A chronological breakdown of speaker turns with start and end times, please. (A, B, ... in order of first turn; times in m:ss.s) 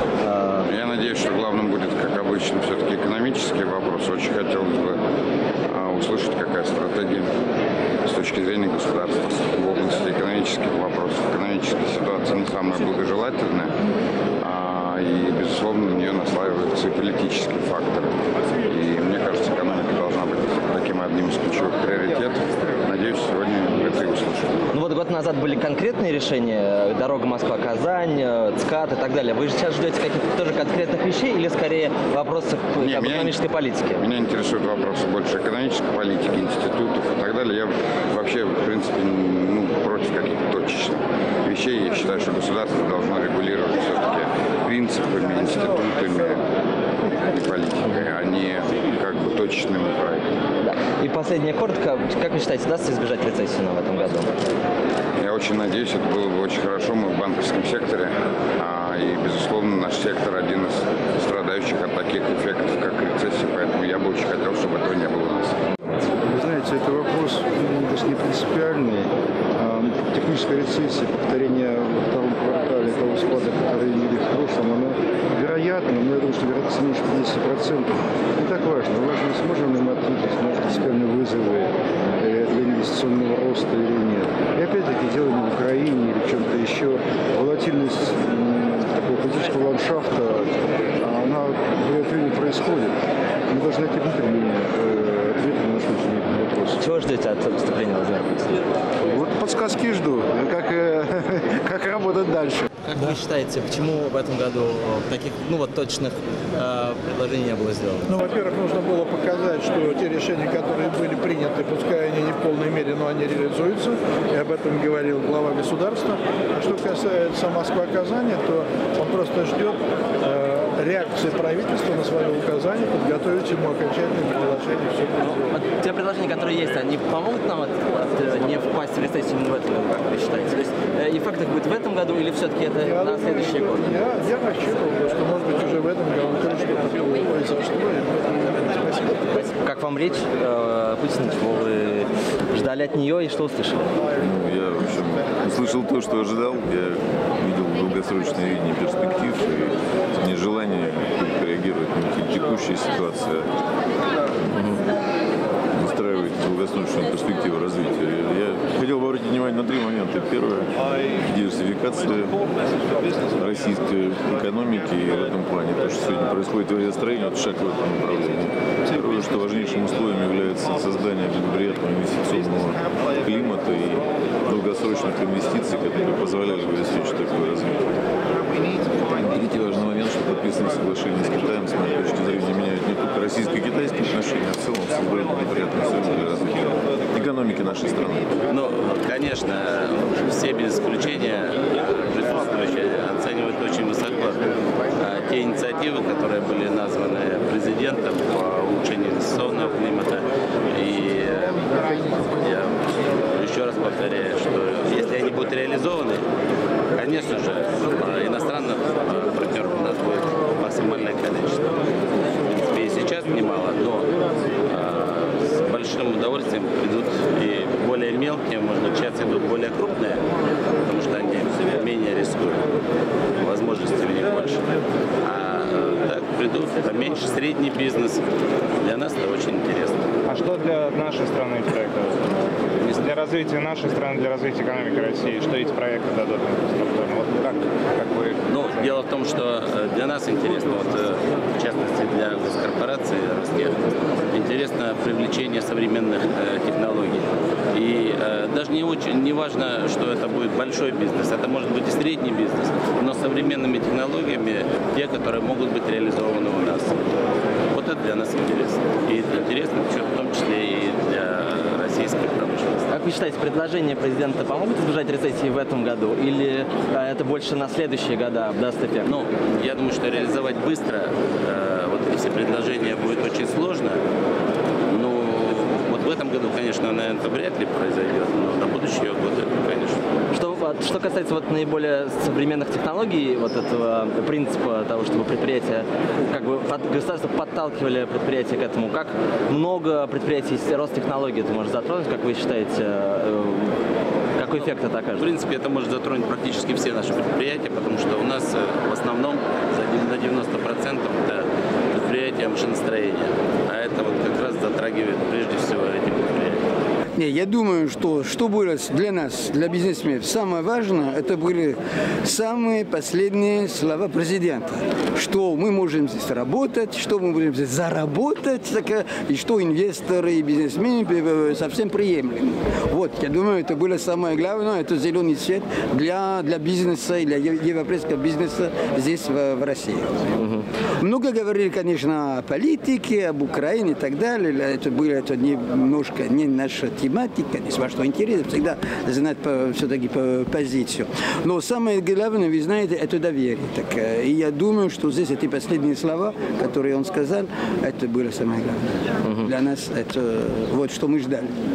0:00.2-0:00.7 A
0:00.7-0:05.1 B
0:05.7-0:07.3 B
0:08.1-0:13.8 B
0:14.4-0:24.6 B
0:24.7-0:34.0 A
0:32.8-0:33.4 B
0:33.9-0:46.4 B
0:47.1-0:50.4 B
0:50.6-0:54.3 A
0:55.2-1:05.6 B
1:06.2-1:33.0 C
1:33.5-1:36.8 C
1:36.8-1:38.5 A
1:39.0-1:42.7 C
1:42.9-1:48.1 A
1:48.1-2:05.5 D
2:05.2-2:14.0 A
2:12.8-2:19.4 D
2:19.6-2:23.9 A
2:24.2-2:33.5 E
2:35.7-2:42.4 E
2:43.4-2:58.0 E
2:59.0-3:08.3 E
3:08.5-3:26.2 F
3:27.0-3:31.9 F
3:32.4-3:34.1 F
3:34.6-3:40.2 F
3:40.9-3:42.7 F
3:43.4-3:44.7 F
3:45.2-3:48.2 F
3:48.8-3:50.1 F
3:50.3-3:52.2 G
3:52.8-3:53.1 F
3:53.0-3:58.8 G
3:58.5-4:17.0 F
4:17.7-4:22.9 F
4:22.9-4:29.1 A
4:29.0-4:34.0 F
4:34.9-4:40.0 F
4:40.3-4:53.7 A
4:54.4-4:55.3 A
4:55.2-5:06.6 F
5:07.2-5:30.3 H
5:31.0-5:51.5 H